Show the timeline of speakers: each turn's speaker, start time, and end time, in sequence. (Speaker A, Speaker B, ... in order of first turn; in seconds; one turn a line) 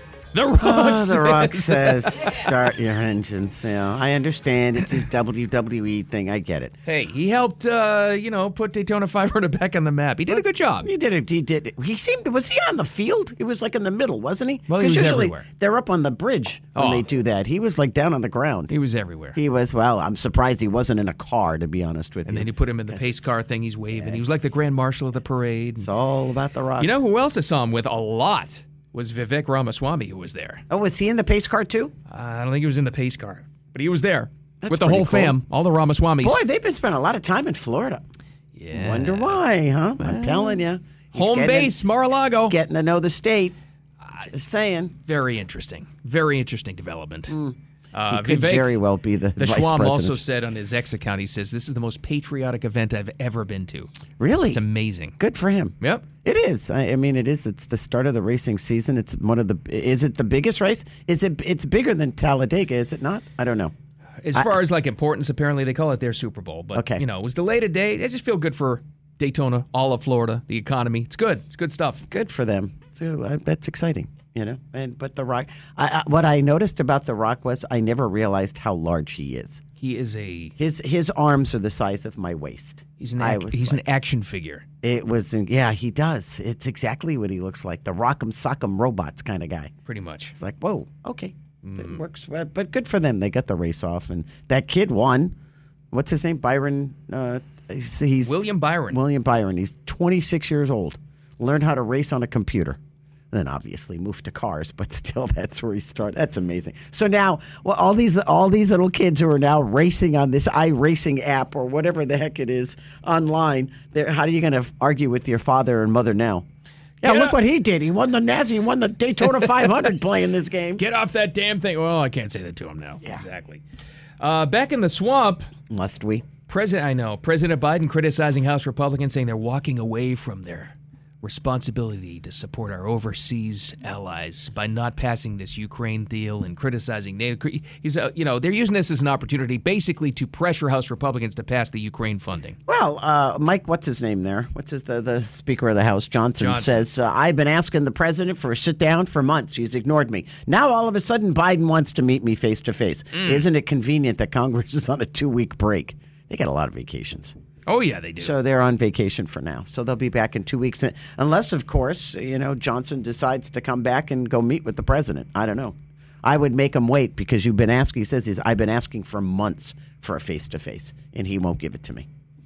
Speaker A: 0.3-2.5
Speaker B: 0.6-6.8
Speaker A: 6.9-10.9
Speaker B: 10.3-18.7
Speaker A: 14.7-15.5
Speaker A: 16.8-17.1
Speaker A: 18.7-19.4
Speaker B: 19.4-23.3
Speaker A: 22.3-25.9
Speaker B: 23.9-24.5
Speaker B: 25.8-26.9
Speaker A: 26.8-30.6
Speaker B: 30.7-31.9
Speaker A: 32.1-36.4
Speaker B: 34.6-35.4
Speaker B: 36.2-38.0
Speaker A: 38.5-39.4
Speaker B: 38.7-41.8
Speaker A: 40.0-40.6
Speaker A: 41.1-42.6
Speaker B: 42.5-43.6
Speaker A: 44.0-44.3
Speaker B: 44.3-44.9
Speaker A: 45.0-47.4
Speaker B: 47.3-50.2
Speaker A: 47.9-48.8
Speaker A: 49.4-53.9
Speaker B: 54.2-54.6
Speaker A: 54.5-55.2
Speaker B: 55.2-63.7
Speaker A: 55.8-56.1
Speaker A: 64.2-72.1
Speaker B: 66.7-67.0
Speaker B: 72.1-79.6
Speaker A: 79.8-80.5
Speaker B: 80.6-83.9
Speaker A: 83.0-84.7
Speaker B: 84.8-89.7
Speaker A: 89.9-90.3
Speaker B: 90.3-95.3
Speaker A: 91.6-92.0
Speaker B: 95.9-102.8
Speaker A: 98.2-99.0
Speaker B: 103.3-116.5
Speaker B: 117.0-120.8
Speaker A: 117.0-117.4
Speaker A: 120.8-123.6
Speaker A: 124.2-125.5
Speaker B: 125.7-126.3
Speaker A: 126.5-142.6
Speaker B: 142.7-157.3
Speaker A: 146.4-146.9
Speaker A: 153.1-153.5
Speaker A: 157.7-158.4
Speaker B: 158.2-172.1